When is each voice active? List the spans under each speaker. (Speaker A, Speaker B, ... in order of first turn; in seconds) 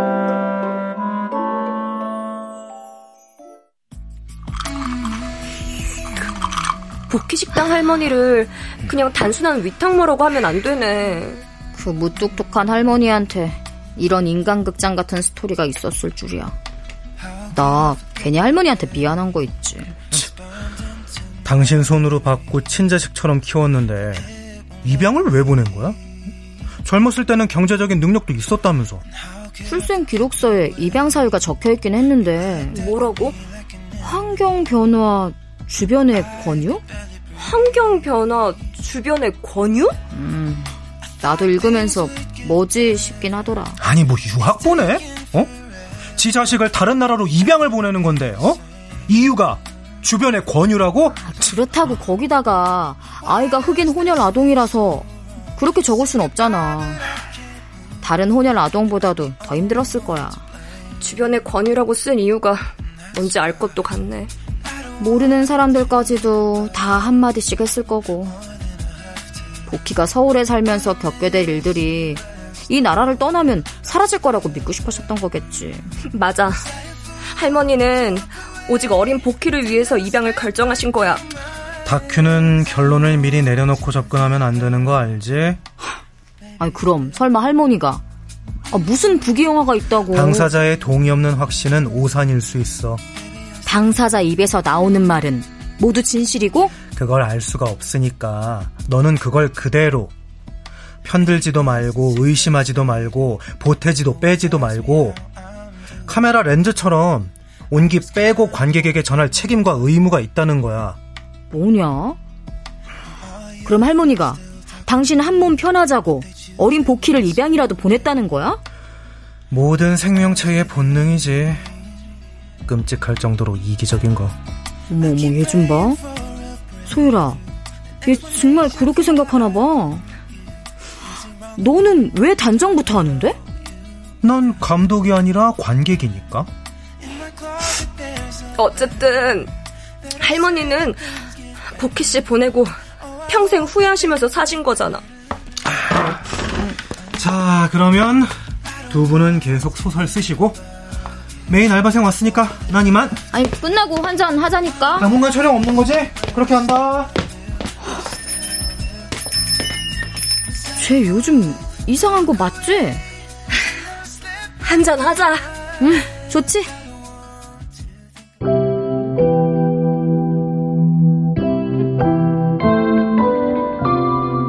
Speaker A: 7.1-11.5, 32.7-33.4, 37.4-40.0, 61.0-64.3, 76.1-76.6, 77.3-81.2, 138.6-139.5, 140.2-141.2, 141.8-145.0, 164.6-165.5
Speaker B: 11.8-16.6, 17.5-20.0, 29.6-32.8, 34.0-36.8, 40.1-43.8, 51.2-57.0, 58.0-60.4, 65.0-68.4, 69.7-75.9, 86.6-88.0, 88.7-90.5, 93.7-96.7, 111.5-112.2, 113.6-118.6, 124.9-126.0, 126.9-127.4, 128.0-130.1, 131.6-133.4, 153.3-155.1, 160.8-163.0, 165.8-166.7
Speaker C: 21.4-24.3, 24.8-26.0, 26.8-29.0, 43.8-45.5, 46.2-51.3, 81.8-85.6, 90.1-93.0, 96.9-100.1, 101.0-105.2, 106.1-111.0, 119.5-121.6, 122.7-124.3, 134.2-136.5, 147.2-148.3, 148.9-150.6, 151.5-153.2, 155.0-157.1